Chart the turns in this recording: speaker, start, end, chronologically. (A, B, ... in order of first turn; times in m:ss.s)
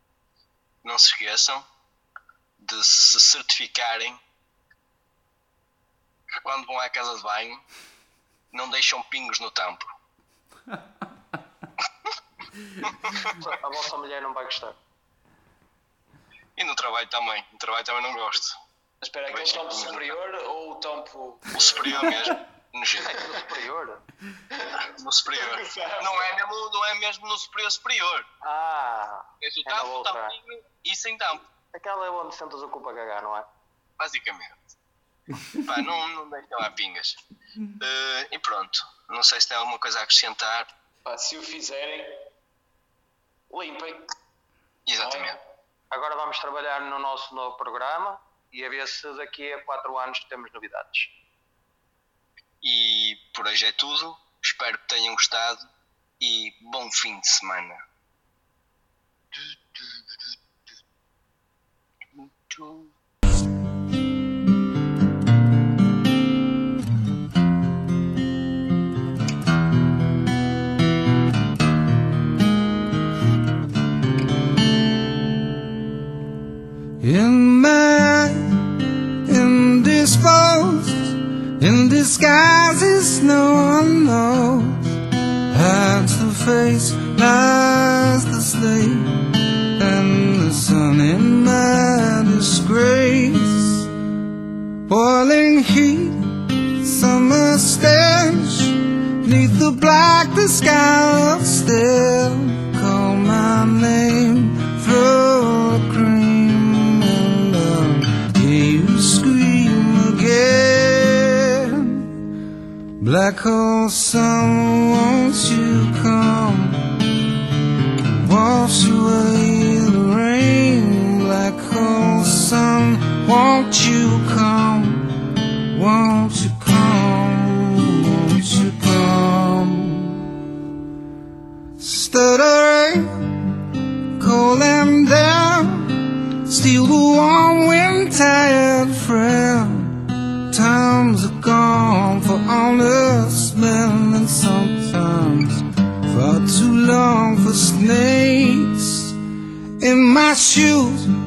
0:00.8-0:01.6 A
0:02.6-0:04.2 A
0:06.4-0:07.6 A
0:08.5-0:09.9 A
0:12.9-0:13.4 A
0:13.4-0:14.8 B
0:16.6-0:18.6 A
0:19.0-0:22.3 C
0:19.3-0:20.1 A
0:21.5-0:23.2 A
0:23.0-0:24.0 B
0:24.5-0:26.3 C
0:25.0-0:28.2 A
0:28.4-0:30.3 B
0:29.4-0:31.4 A
0:31.7-0:33.5 B
0:34.0-0:34.6 A
0:35.6-0:37.2 A
0:37.8-0:40.7 A
0:41.0-0:42.1 C
0:43.5-0:44.1 C
0:44.8-0:45.4 A
0:45.0-0:45.4 C
0:45.9-0:51.1 B
0:52.6-0:55.6 A
0:56.2-0:57.8 A
1:02.5-1:02.8 A
1:17.0-1:18.7 D
1:19.2-1:24.9 D
1:25.5-1:33.9 D
1:34.9-1:52.2 D
1:53.0-1:57.0 D
1:58.1-2:05.1 D
2:05.7-2:10.2 D
2:11.8-2:13.4 D
2:14.2-2:29.1 D
2:29.8-2:31.1 D